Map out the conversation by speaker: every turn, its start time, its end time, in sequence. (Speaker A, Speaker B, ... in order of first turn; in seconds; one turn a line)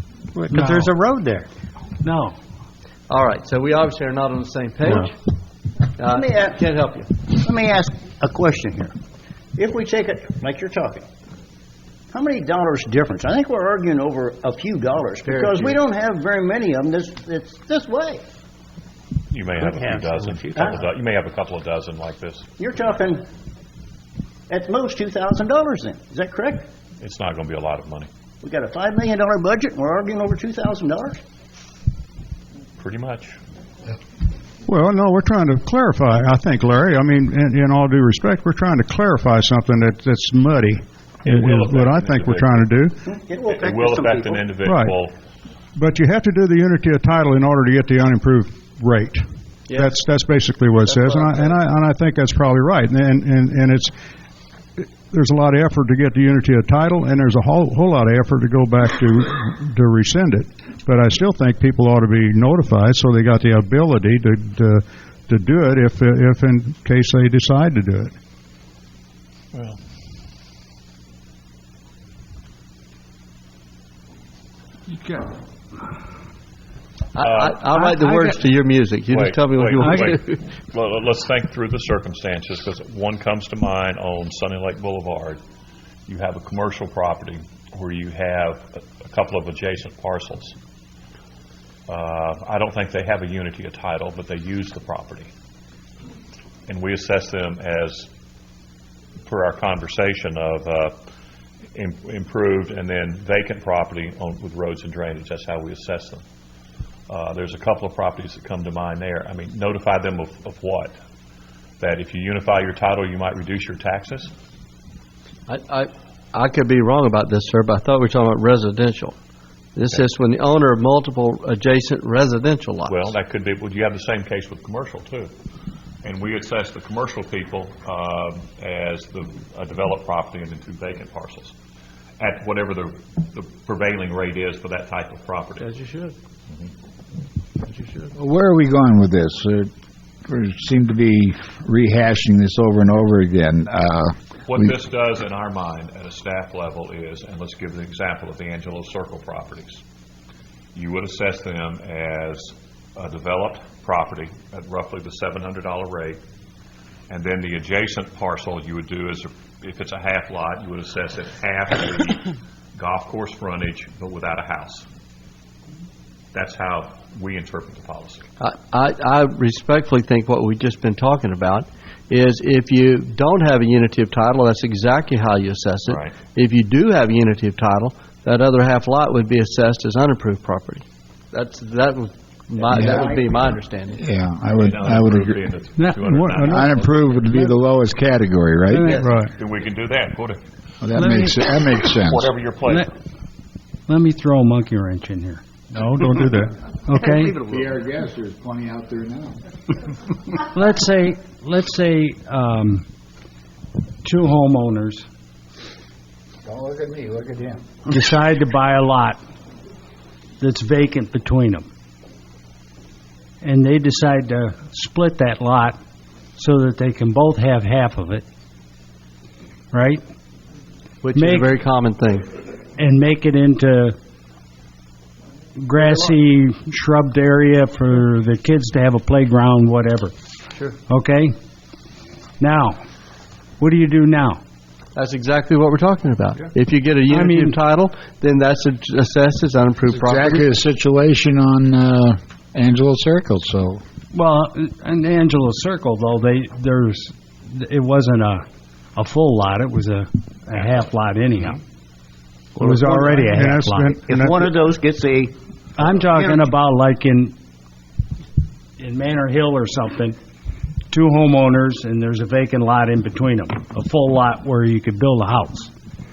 Speaker A: 0.3-1.5
Speaker B: 0.5-0.9
Speaker B: 2.0-2.4
Speaker C: 3.1-5.2
Speaker C: 6.0-7.1
Speaker D: 6.0-6.6
Speaker D: 7.3-8.9
Speaker D: 9.6-11.1
Speaker D: 12.1-18.2
Speaker C: 15.3-15.7
Speaker E: 19.3-22.5
Speaker A: 19.7-20.6
Speaker D: 22.6-23.2
Speaker D: 24.5-26.6
Speaker E: 27.0-28.1
Speaker D: 28.4-31.2
Speaker E: 32.8-33.4
Speaker F: 34.7-43.0
Speaker E: 41.2-42.7
Speaker D: 43.1-44.5
Speaker E: 43.5-45.1
Speaker F: 44.6-45.0
Speaker F: 45.8-53.9
Speaker C: 50.9-51.5
Speaker F: 55.1-68.1
Speaker E: 69.5-69.8
Speaker C: 77.2-80.4
Speaker E: 77.2-77.7
Speaker B: 77.8-78.4
Speaker E: 79.1-85.4
Speaker B: 79.8-80.1
Speaker E: 86.1-90.6
Speaker E: 91.9-95.3
Speaker E: 96.7-98.1
Speaker E: 99.3-101.0
Speaker E: 101.8-106.2
Speaker E: 107.1-111.0
Speaker E: 111.8-114.3
Speaker C: 115.5-119.2
Speaker C: 119.8-123.1
Speaker E: 122.9-125.3
Speaker E: 126.0-131.6
Speaker E: 132.2-135.7
Speaker C: 135.6-136.2
Speaker C: 137.7-138.1
Speaker G: 138.2-139.7
Speaker G: 140.3-144.7
Speaker E: 144.5-149.8
Speaker E: 150.7-156.2
Speaker E: 157.1-162.2
Speaker E: 162.8-164.9
Speaker E: 166.3-168.3
Speaker C: 168.4-184.0
Speaker E: 175.9-176.2
Speaker G: 182.7-183.2
Speaker G: 183.9-185.4
Speaker E: 184.5-187.0
Speaker F: 185.9-186.7
Speaker G: 186.5-189.0
Speaker B: 188.7-189.2
Speaker F: 188.9-189.3
Speaker E: 189.3-190.4
Speaker G: 190.8-192.3
Speaker B: 190.9-191.4
Speaker E: 192.1-192.9
Speaker B: 193.9-195.4
Speaker F: 195.7-196.5
Speaker B: 196.8-197.4
Speaker G: 197.4-199.4
Speaker B: 200.4-202.9
Speaker B: 204.0-205.1
Speaker G: 206.4-207.6
Speaker B: 207.9-209.2
Speaker B: 210.4-211.7
Speaker B: 213.4-215.8
Speaker B: 216.4-218.2
Speaker B: 219.7-220.0
Speaker C: 221.0-222.3
Speaker B: 221.1-221.5
Speaker B: 222.8-224.0
Speaker B: 225.6-230.1
Speaker B: 230.9-231.3
Speaker B: 232.4-232.8
Speaker B: 233.6-234.4
Speaker C: 234.9-240.5
Speaker B: 237.1-237.6
Speaker G: 239.9-243.8
Speaker B: 244.1-248.4
Speaker B: 248.9-251.6
Speaker B: 252.6-254.0
Speaker F: 252.7-254.4
Speaker D: 254.0-255.3
Speaker B: 255.8-257.4
Speaker D: 256.1-256.4
Speaker B: 258.8-260.2
Speaker B: 260.9-265.7